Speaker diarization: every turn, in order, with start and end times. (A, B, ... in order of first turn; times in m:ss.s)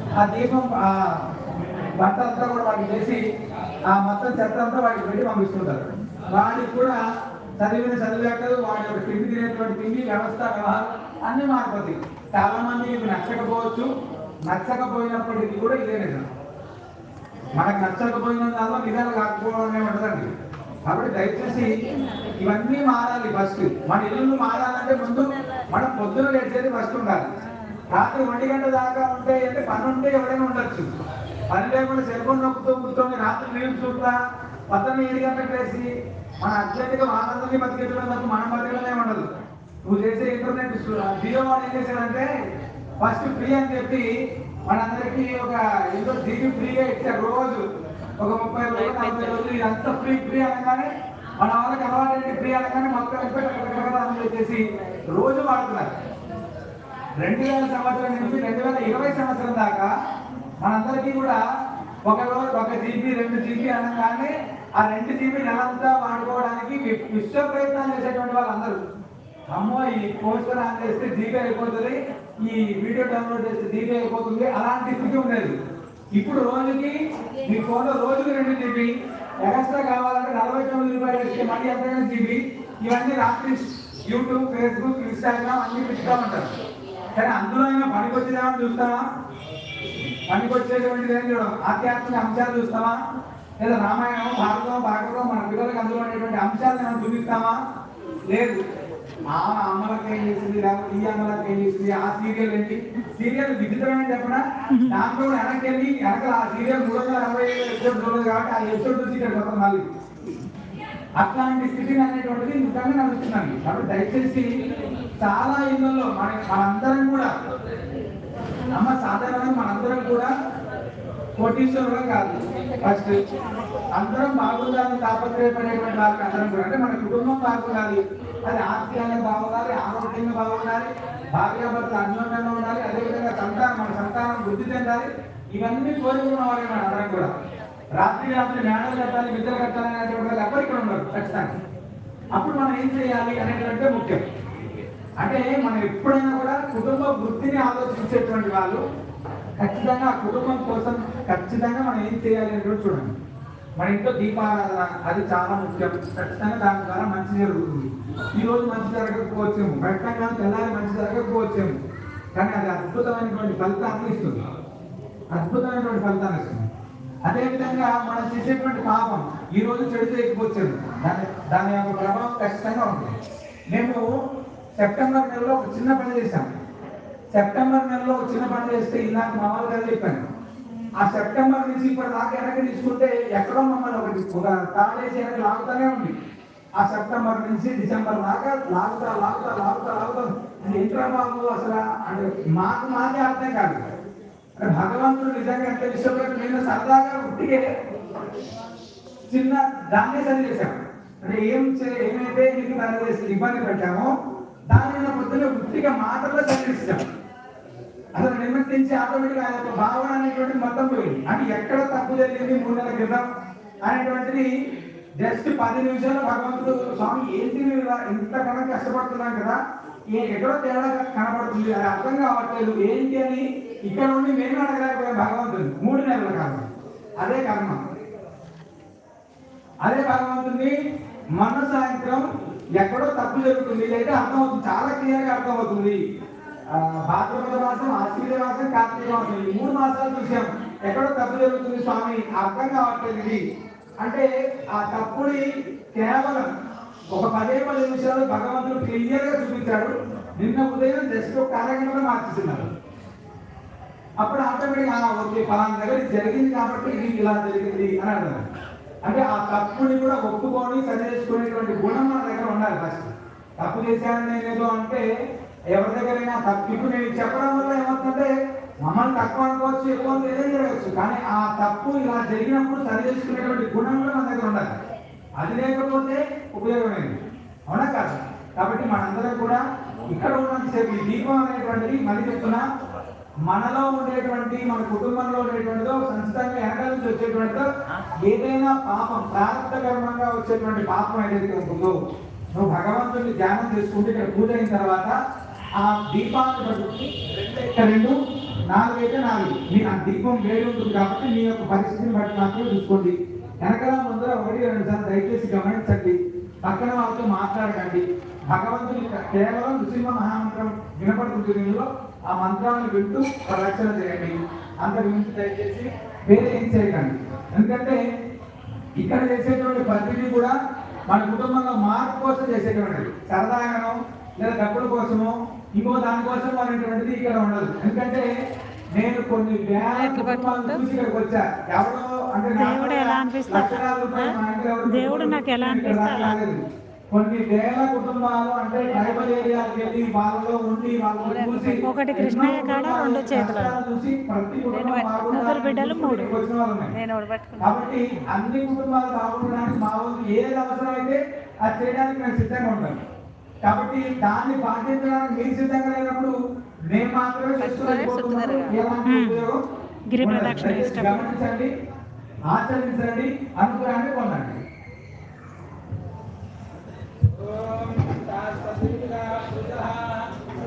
0:00.2-0:01.1 A
0:02.0-0:03.2 A
0:03.9-0:07.0 A
0:07.6-0:13.9 A
0:14.5-0:16.2 A
0:17.6-0:20.3 A
0:20.8-0:21.7 A
0:22.4-0:27.3 A
0:27.9-0:30.9 A
0:31.5-0:34.2 A
0:34.7-0:35.9 A
0:36.4-0:39.2 A
0:39.8-0:42.3 A
0:43.0-0:44.1 A
0:44.7-0:47.6 A
0:48.2-0:50.9 A
0:48.8-0:49.4 B
0:51.4-0:55.9 A
0:57.2-0:59.9 A
1:00.6-1:01.4 A
1:02.0-1:08.8 A
1:09.5-1:15.5 A
1:16.1-1:26.5 A
1:27.2-1:29.0 A
1:30.3-1:33.0 A
1:33.6-1:37.6 A
1:38.3-1:38.6 A
1:39.3-1:49.8 A
1:51.2-1:54.5 A
1:55.2-1:57.3 A
1:58.7-2:00.3 A
2:01.4-2:03.2 A
2:03.9-2:17.3 A
2:18.0-2:21.5 A
2:22.3-2:24.2 A
2:25.2-2:28.8 A
2:29.6-2:33.1 A
2:33.8-2:41.7 A
2:42.3-2:44.4 A
2:45.3-2:46.7 A
2:47.2-2:53.1 A
2:53.7-2:54.0 A
2:54.8-2:56.5 A
2:57.3-3:00.2 A
3:01.0-3:06.1 A
3:06.8-3:13.8 A
3:14.6-3:17.7 A
3:19.3-3:24.1 A
3:24.7-3:27.0 A
3:28.2-3:33.3 A
3:33.8-3:34.5 A
3:35.2-3:39.6 A
3:40.1-3:47.8 A
3:49.8-3:50.7 A
3:51.4-3:52.2 A
3:52.8-3:56.0 A
3:56.7-4:03.4 A
4:04.0-4:05.4 A
4:06.0-4:06.5 A
4:07.1-4:12.7 A
4:14.2-4:18.4 A
4:19.0-4:25.0 A
4:25.7-4:28.3 A
4:28.8-4:34.7 A
4:35.4-4:37.2 A
4:37.7-4:42.6 A
4:43.5-4:47.7 A
4:48.2-4:52.0 A
4:52.5-4:55.2 A
4:55.8-4:58.2 A
4:58.7-5:18.0 A
5:19.0-5:20.5 A
5:21.1-5:28.2 A
5:28.9-5:36.6 A
5:29.8-5:30.8 B
5:32.6-5:34.3 C
5:34.8-5:36.4 C
5:37.1-5:46.9 A
5:38.9-5:39.8 B
5:41.2-5:41.8 B
5:41.8-5:43.8 C
5:44.7-5:45.6 B
5:45.3-5:46.3 C
5:46.9-5:47.8 B
5:47.6-5:53.0 A
5:53.6-5:56.3 A
5:56.9-5:59.6 A
5:57.6-5:58.8 B
5:59.0-5:59.4 C
6:00.1-6:01.3 C
6:00.2-6:01.7 A
6:02.5-6:04.6 A
6:07.4-6:10.3 A